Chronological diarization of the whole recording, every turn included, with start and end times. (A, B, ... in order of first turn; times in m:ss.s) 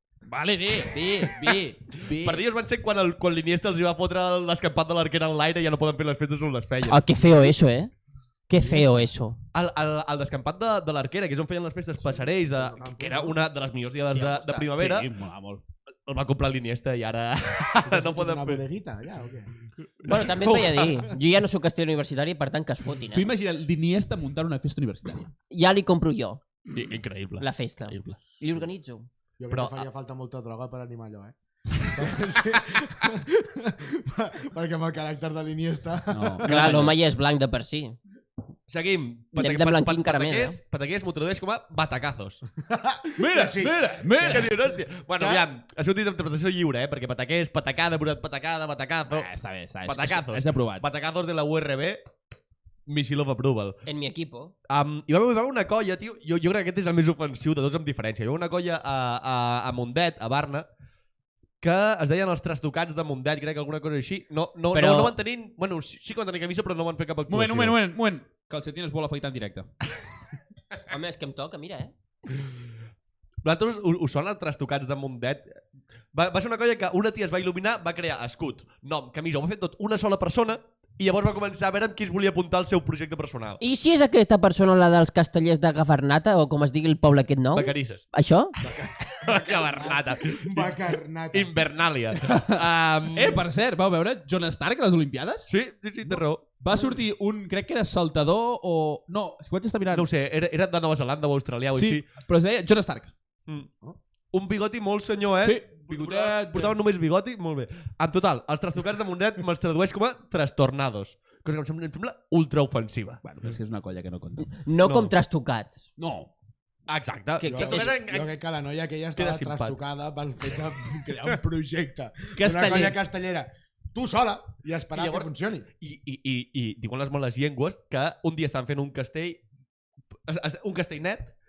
0:00.3-0:02.4 A
0:02.1-0:07.0 B
0:06.9-0:07.9 C
0:08.5-0:09.4 C
0:08.6-0:08.9 D
0:09.5-0:15.1 B
0:12.0-0:13.4 D
0:14.1-0:14.7 C
0:14.7-0:15.6 A
0:16.1-0:18.6 B
0:17.8-0:19.5 D
0:20.0-0:21.1 B
0:20.0-0:23.3 C
0:23.1-0:25.3 A
0:25.5-0:26.4 C
0:26.7-0:28.2 B
0:27.4-0:29.1 C
0:29.4-0:36.8 D
0:29.5-0:29.9 B
0:36.1-0:37.0 A
0:36.4-0:38.0 C
0:38.7-0:42.4 B
0:39.4-0:40.6 C
0:42.6-0:44.6 D
0:43.2-0:44.6 A
0:44.3-0:49.3 B
0:49.1-0:50.8 A
0:49.9-0:52.0 B
0:52.9-0:53.8 B
0:53.8-0:54.5 C
0:54.7-1:00.7 B
1:01.6-1:07.8 B
1:04.7-1:05.1 C
1:07.3-1:09.7 A
1:10.9-1:11.9 C
1:13.4-1:15.4 B
1:16.1-1:23.6 B
1:23.6-1:28.6 C
1:27.5-1:28.0 B
1:28.6-1:31.6 D
1:29.2-1:33.4 B
1:32.2-1:35.5 A
1:35.5-1:36.4 B
1:36.1-1:36.8 D
1:36.6-1:40.1 A
1:39.9-1:42.0 B
1:41.7-1:43.1 A
1:44.3-1:53.2 B
1:45.4-1:46.8 A
1:53.2-1:55.1 A
1:54.6-1:55.9 C
1:56.0-1:56.3 A
1:56.9-1:58.3 B
1:57.4-1:58.0 C
1:57.5-2:05.7 D
1:59.2-1:59.8 B
2:02.4-2:03.0 A
2:04.9-2:09.4 B
2:10.3-2:11.3 B